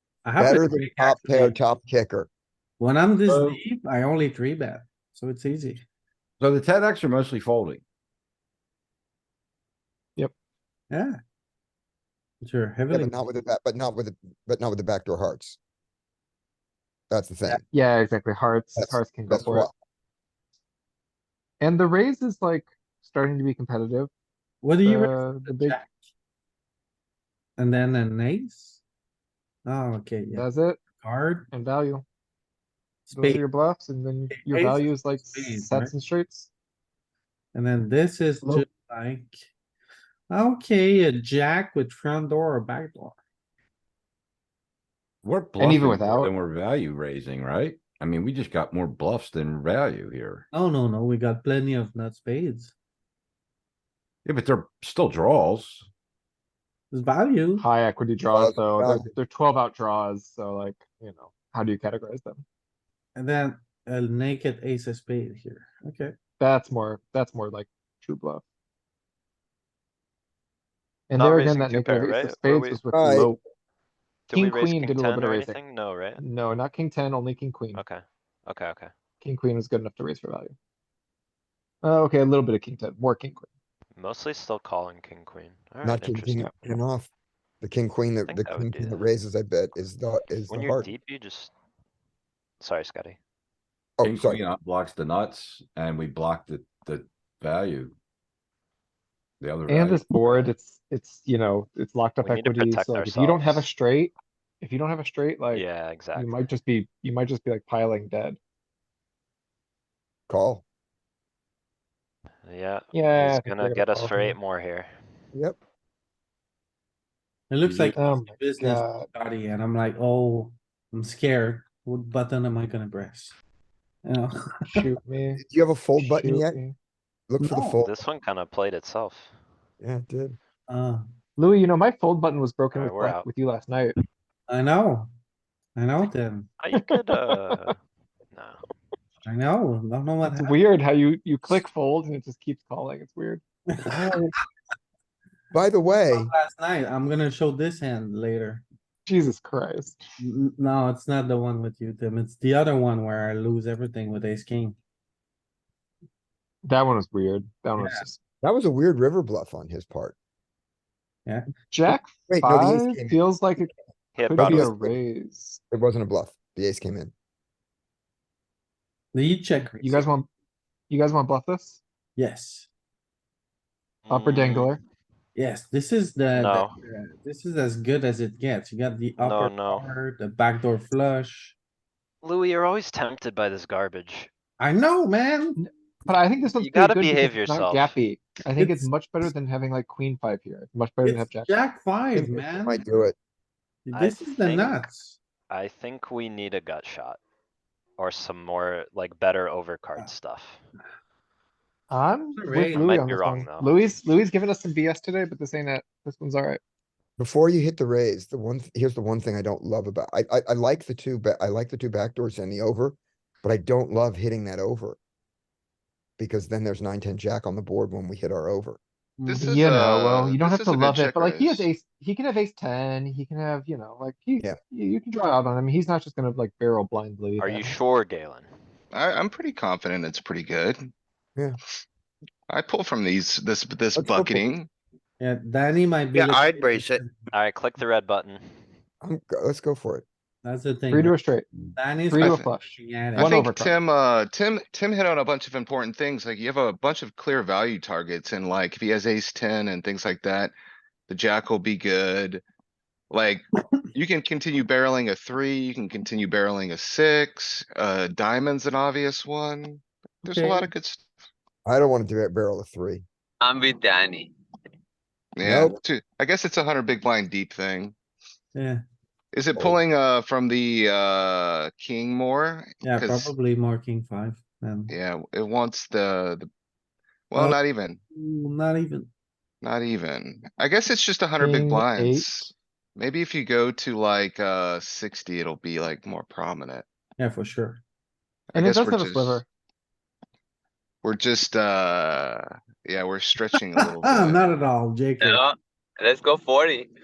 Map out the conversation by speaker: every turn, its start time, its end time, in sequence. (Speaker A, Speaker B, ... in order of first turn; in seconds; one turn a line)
Speaker A: 0.2-1.6
Speaker B: 0.4-2.3
Speaker A: 2.8-5.8
Speaker C: 3.2-3.6
Speaker C: 6.4-7.8
Speaker A: 10.9-11.2
Speaker A: 12.4-13.2
Speaker B: 12.9-15.6
Speaker B: 17.1-17.6
Speaker D: 17.7-19.7
Speaker B: 18.8-19.7
Speaker D: 21.6-24.1
Speaker A: 24.6-26.1
Speaker D: 24.8-25.8
Speaker A: 27.6-28.8
Speaker A: 29.6-31.5
Speaker D: 30.3-30.8
Speaker D: 31.5-32.0
Speaker A: 33.1-33.4
Speaker D: 33.1-36.5
Speaker A: 34.3-35.9
Speaker A: 37.5-39.4
Speaker A: 40.3-43.2
Speaker C: 45.2-50.4
Speaker D: 45.6-46.3
Speaker A: 50.5-52.7
Speaker C: 54.2-55.9
Speaker A: 56.9-57.6
Speaker D: 57.6-62.4
Speaker B: 58.3-59.1
Speaker A: 63.1-66.1
Speaker D: 66.4-68.4
Speaker D: 71.1-73.4
Speaker E: 71.1-72.8
Speaker B: 72.9-73.3
Speaker E: 74.3-76.2
Speaker D: 74.3-75.6
Speaker D: 76.2-77.8
Speaker E: 77.7-78.9
Speaker D: 79.2-80.5
Speaker D: 81.8-83.5
Speaker E: 84.0-86.8
Speaker B: 85.8-87.1
Speaker B: 87.6-90.9
Speaker E: 88.3-89.0
Speaker E: 90.5-91.5
Speaker E: 92.6-93.2
Speaker B: 94.0-94.4
Speaker C: 94.0-97.9
Speaker C: 99.4-100.1
Speaker D: 99.7-108.4
Speaker E: 102.2-103.7
Speaker E: 105.5-106.4
Speaker B: 110.3-110.6
Speaker E: 112.4-114.9
Speaker D: 112.9-114.4
Speaker A: 117.5-123.3
Speaker C: 117.6-118.0
Speaker D: 117.9-119.1
Speaker A: 124.0-124.9
Speaker D: 124.7-125.4
Speaker B: 125.4-126.6
Speaker D: 125.9-126.7
Speaker B: 127.3-128.0
Speaker A: 127.4-127.8
Speaker E: 127.8-129.3
Speaker B: 129.8-130.4
Speaker A: 130.7-131.1
Speaker D: 131.4-133.9
Speaker E: 132.7-133.3
Speaker A: 134.5-135.1
Speaker A: 135.8-136.5
Speaker E: 136.6-137.8
Speaker E: 138.3-138.6
Speaker A: 139.2-140.6
Speaker D: 140.2-143.4
Speaker A: 143.8-144.3
Speaker B: 145.5-146.3
Speaker A: 146.0-148.6
Speaker D: 149.1-150.0
Speaker A: 150.2-154.8
Speaker D: 156.6-158.2
Speaker A: 157.7-158.1
Speaker B: 158.4-160.1
Speaker D: 161.7-165.6
Speaker B: 161.9-163.2
Speaker E: 164.2-164.7
Speaker B: 164.4-164.9
Speaker B: 165.7-167.1
Speaker A: 169.1-170.1
Speaker D: 169.8-170.3
Speaker D: 170.9-171.8
Speaker A: 172.2-172.7
Speaker E: 174.0-174.8
Speaker D: 174.1-174.8
Speaker A: 175.3-181.5
Speaker E: 176.3-176.7
Speaker E: 179.2-179.8
Speaker E: 182.2-184.3
Speaker A: 184.6-185.6
Speaker D: 185.6-191.6
Speaker E: 186.5-187.9
Speaker A: 188.6-188.9
Speaker A: 191.0-193.1
Speaker B: 192.1-193.1
Speaker A: 193.8-195.2
Speaker E: 193.9-194.9
Speaker E: 195.5-197.2
Speaker E: 198.0-200.6
Speaker D: 201.9-206.6
Speaker A: 202.3-202.9
Speaker E: 202.7-203.8
Speaker B: 207.2-215.0
Speaker B: 216.2-218.8
Speaker A: 219.2-219.5
Speaker F: 219.2-221.7
Speaker D: 219.4-227.8
Speaker E: 227.4-228.5
Speaker F: 228.9-230.8
Speaker F: 232.5-234.7
Speaker B: 233.9-234.4
Speaker A: 235.2-237.1
Speaker B: 236.2-236.9
Speaker E: 237.3-238.4
Speaker B: 239.0-240.0
Speaker A: 240.4-241.2
Speaker D: 240.9-241.5
Speaker A: 241.7-243.3
Speaker D: 242.1-243.8
Speaker F: 242.1-242.5
Speaker F: 243.2-250.5
Speaker F: 251.1-252.4
Speaker F: 253.1-261.0
Speaker A: 260.2-260.7
Speaker B: 261.6-263.0
Speaker G: 263.4-264.3
Speaker F: 265.4-267.9
Speaker B: 265.4-265.8
Speaker A: 268.5-268.8
Speaker F: 269.3-273.3
Speaker A: 272.8-274.9
Speaker F: 274.9-276.5
Speaker F: 277.3-278.0
Speaker A: 278.1-279.1
Speaker F: 279.6-286.9
Speaker D: 281.4-282.5
Speaker A: 287.2-287.8
Speaker F: 288.5-289.4
Speaker D: 288.5-289.4
Speaker F: 291.0-294.6
Speaker A: 293.8-295.4
Speaker G: 295.2-296.9